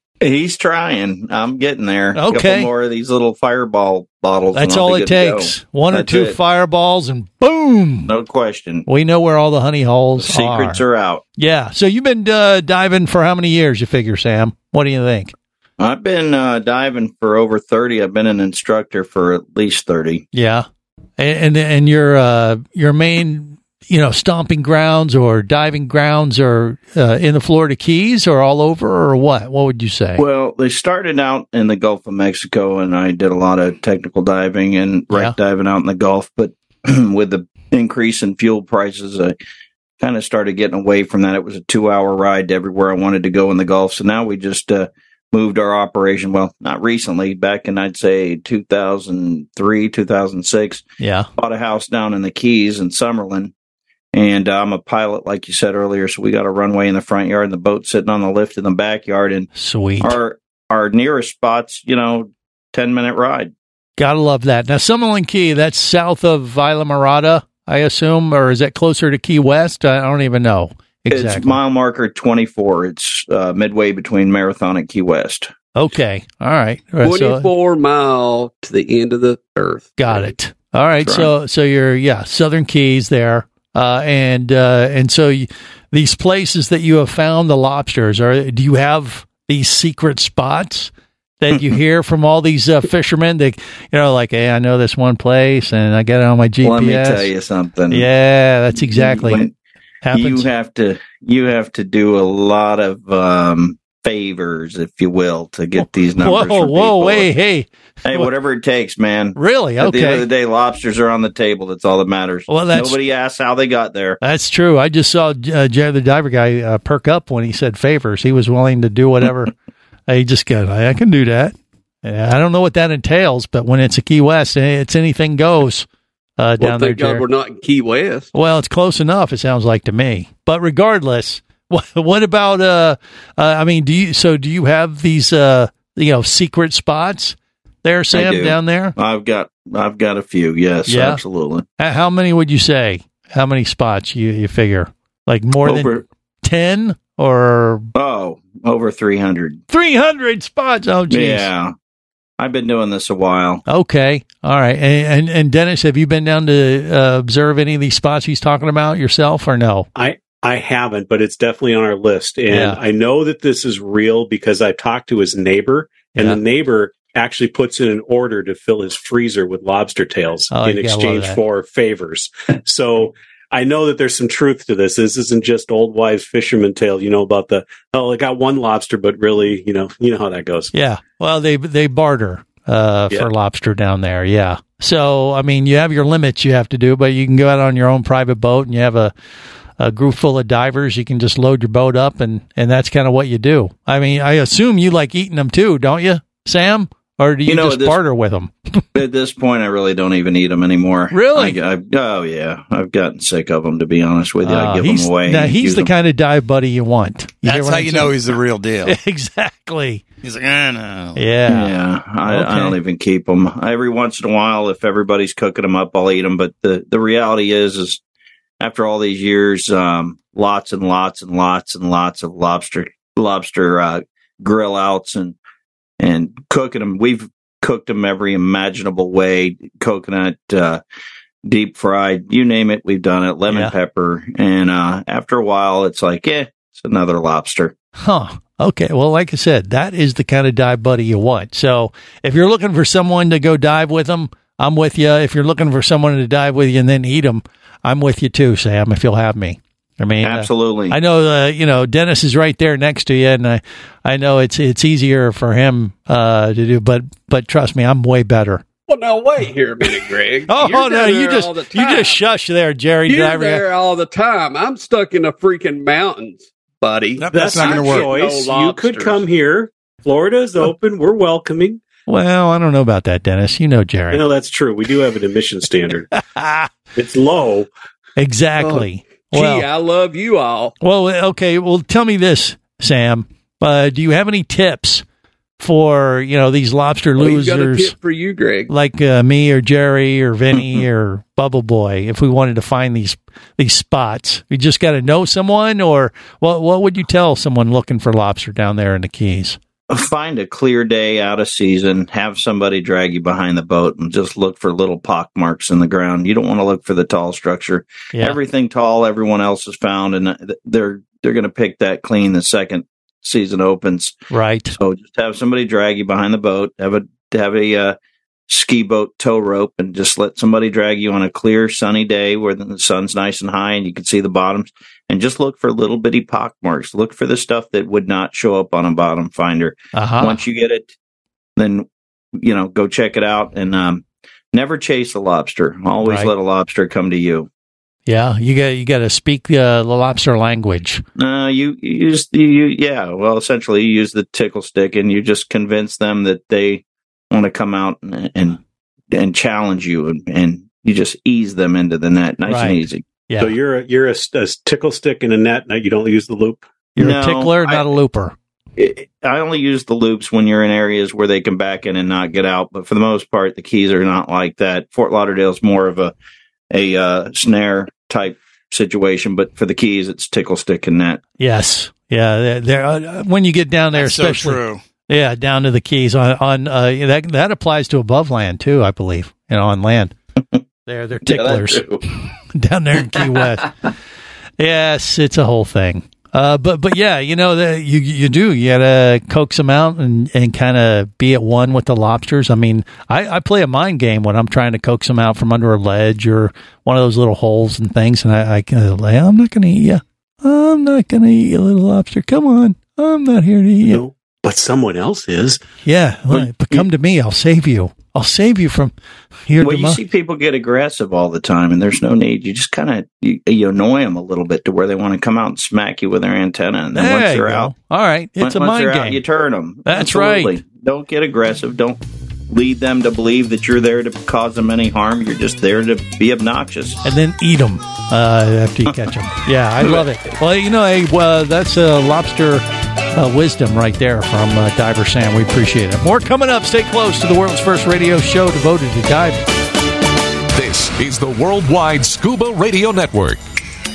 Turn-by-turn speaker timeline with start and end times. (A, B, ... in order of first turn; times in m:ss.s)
0:00.2-0:06.4 A
0:02.1-0:02.7 B
0:04.5-0:08.1 B
0:08.1-0:08.9 A
0:08.9-0:10.8 B
0:10.2-0:11.2 A
0:11.4-0:15.3 B
0:15.8-0:20.2 A
0:20.3-0:20.6 B
0:21.2-0:30.2 B
0:30.2-0:39.3 A
0:40.0-0:50.8 A
0:51.0-0:51.3 B
0:51.4-0:53.5 A
0:54.1-0:59.5 A
0:59.5-1:00.2 B
1:00.0-1:03.5 A
1:04.0-1:11.6 B
1:11.1-1:15.5 A
1:15.7-1:17.5 B
1:17.0-1:20.3 C
1:20.0-1:37.3 B
1:21.0-1:21.3 A
1:36.6-1:38.1 A
1:37.9-1:39.4 B
1:38.7-1:39.5 A
1:40.0-1:40.5 B
1:40.1-1:47.3 A
1:45.8-1:48.3 B
1:48.0-1:54.2 A
1:49.4-1:50.2 B
1:52.5-1:53.0 B
1:54.2-1:59.5 B
2:00.1-2:05.8 B
2:06.4-2:07.2 B
2:06.6-2:08.3 C
2:08.3-2:18.9 B
2:18.1-2:21.6 A
2:20.9-2:21.2 B
2:21.8-2:27.9 B
2:25.6-2:26.0 A
2:27.9-2:29.6 A
2:29.7-2:31.5 B
2:31.1-2:31.7 A
2:32.4-2:33.6 A
2:33.7-2:39.9 B
2:39.9-3:00.7 D
2:42.5-2:42.8 B
2:50.5-2:51.4 B
3:00.7-3:09.1 B
3:09.8-3:18.5 B
3:17.4-3:18.0 A
3:18.9-3:25.9 A
3:21.1-3:21.6 B
3:24.4-3:28.2 B
3:27.4-3:29.0 E
3:28.8-3:30.0 B
3:30.2-3:31.2 E
3:31.2-3:31.7 B
3:31.5-3:38.0 A
3:32.3-3:32.8 B
3:38.6-3:45.4 A
3:46.0-3:50.8 A
3:51.4-3:57.7 A
3:53.5-3:53.7 B
3:58.0-4:18.6 B
4:10.2-4:11.0 A
4:18.9-4:22.2 C
4:20.5-4:23.6 B
4:23.1-4:29.3 C
4:27.2-4:28.1 E
4:27.3-4:31.8 D
4:32.1-4:34.2 B
4:34.1-4:36.1 D
4:36.1-4:36.7 B
4:36.9-4:37.7 D
4:38.2-4:39.7 B
4:38.6-4:40.7 C
4:40.8-4:45.0 B
4:45.6-4:47.9 B
4:47.2-4:48.7 C
4:48.7-4:59.6 B
4:50.6-4:50.8 A
4:59.9-5:14.2 A
5:08.1-5:08.4 B
5:14.3-5:14.8 B
5:14.8-5:18.0 A
5:18.5-5:30.9 A
5:29.9-5:30.4 B
5:31.6-5:37.5 A
5:36.0-5:36.3 B
5:38.1-5:41.0 B
5:41.2-5:48.6 A
5:49.1-5:53.0 A
5:52.5-5:53.6 B
5:53.4-5:56.7 D
5:57.0-5:58.4 B
5:57.0-5:57.9 A
5:58.8-6:06.1 A
6:06.7-6:11.2 A
6:11.4-6:20.1 B
6:13.9-6:14.8 E
6:20.9-6:21.8 B
6:21.2-6:22.0 A
6:22.5-6:23.7 B
6:24.6-6:44.0 B
6:43.8-6:45.6 D
6:45.8-6:48.9 B
6:49.5-6:50.0 B
6:49.6-6:57.7 A
6:56.9-6:59.2 B
6:58.4-7:07.0 A
6:59.8-7:00.6 B
7:07.0-7:19.4 B
7:20.5-7:23.4 F